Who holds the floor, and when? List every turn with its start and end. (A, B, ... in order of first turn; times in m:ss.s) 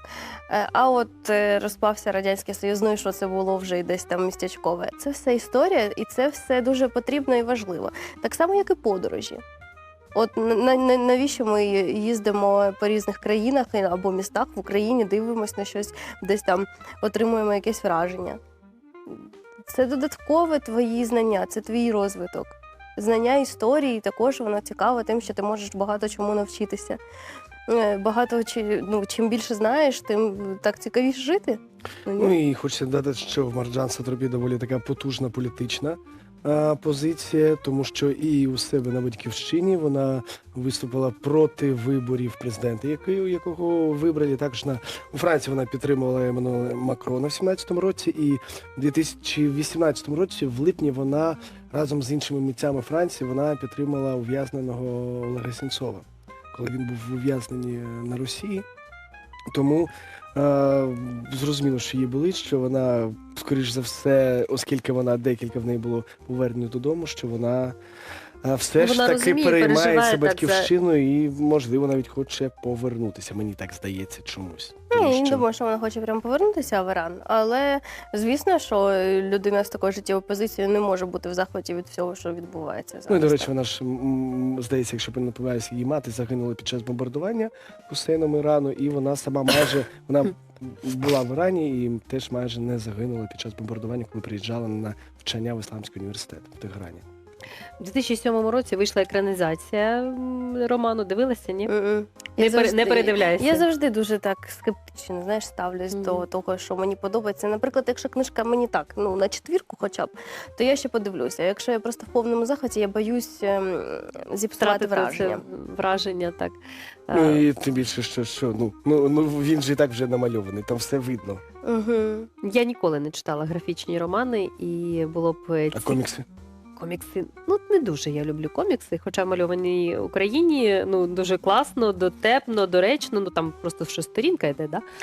0:00.5-0:09.4 A
0:10.1-0:18.4 A
0:19.1-0:27.0 A
0:27.7-0:32.4 A
0:32.2-0:58.7 B
0:59.5-1:07.8 B
1:08.4-1:15.4 B
1:08.8-1:10.7 C
1:14.9-1:23.5 A
1:23.1-1:37.0 B
1:37.8-1:41.7 C
1:41.7-1:55.4 A
1:42.4-1:43.6 C
1:45.9-1:46.2 C
1:54.6-1:56.6 C
1:57.1-1:57.5 C
1:57.1-2:01.4 B
2:01.6-2:02.3 A
2:02.4-2:06.0 C
2:05.7-2:06.3 B
2:06.8-2:14.8 C